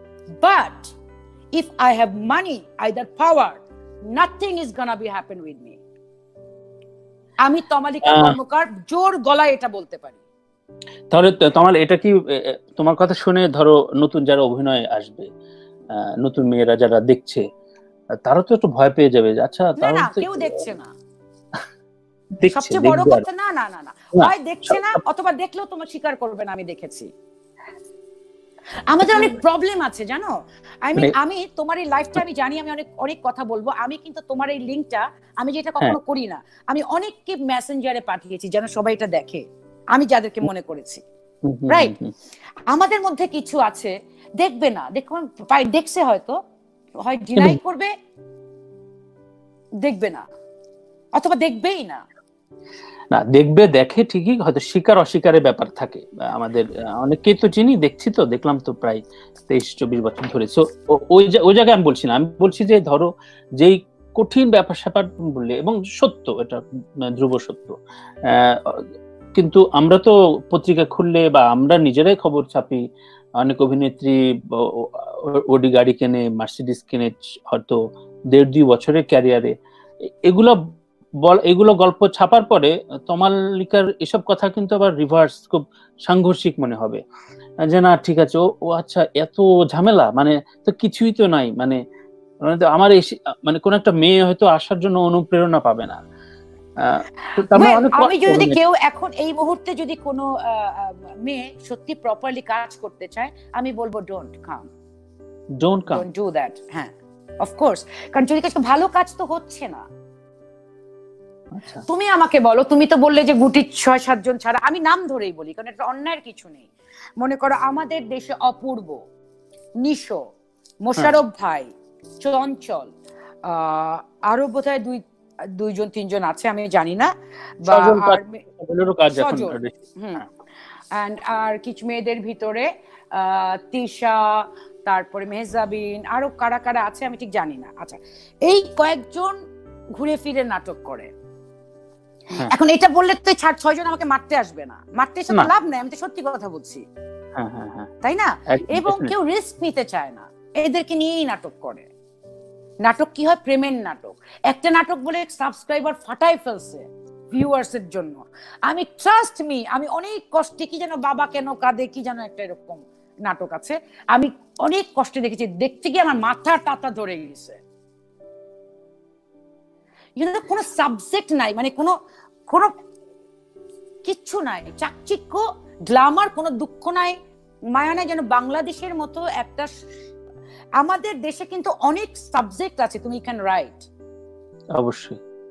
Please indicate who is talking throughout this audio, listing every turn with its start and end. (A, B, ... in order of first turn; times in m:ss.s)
0:00.4-0:00.9 A
0:01.6-0:03.6 A
0:04.1-0:05.8 A
0:07.4-0:10.2 A
0:08.1-0:08.4 B
0:11.1-0:15.3 B
0:16.0-0:17.4 B
0:18.2-0:20.7 B
0:19.8-0:20.9 A
0:22.4-0:23.2 B
0:22.5-0:27.1 A
0:24.2-0:25.0 B
0:28.9-0:30.3 A
0:29.1-0:29.4 B
0:30.8-0:41.0 A
0:41.4-0:42.1 B
0:41.7-0:41.9 A
0:42.7-0:46.4 A
0:47.0-0:47.9 A
0:49.8-0:50.3 A
0:51.2-0:52.0 A
0:53.1-1:06.6 B
1:07.1-1:07.8 B
1:08.3-1:08.8 B
1:09.4-1:12.8 B
1:13.4-1:17.8 B
1:18.3-1:19.6 B
1:20.3-1:20.6 B
1:21.2-1:27.0 B
1:27.7-1:31.8 B
1:32.4-1:36.0 B
1:36.8-1:38.6 B
1:37.5-1:44.7 A
1:45.6-1:46.0 B
1:45.9-1:49.9 A
1:51.6-1:51.8 B
1:51.9-1:56.7 A
1:57.2-1:59.0 A
1:59.8-2:00.2 A
2:00.9-2:02.9 A
2:03.5-2:05.0 A
2:05.6-2:07.1 A
2:07.6-2:08.4 A
2:07.6-2:09.8 B
2:09.1-2:10.2 A
2:11.0-2:19.4 A
2:20.0-2:21.1 A
2:22.4-2:26.8 A
2:27.4-2:27.9 B
2:28.0-2:31.9 A
2:28.5-2:29.1 B
2:32.8-2:47.6 A
2:50.2-2:51.9 A
2:54.0-2:57.2 A
2:57.7-2:59.7 A
3:00.8-3:03.9 A
3:04.8-3:05.2 B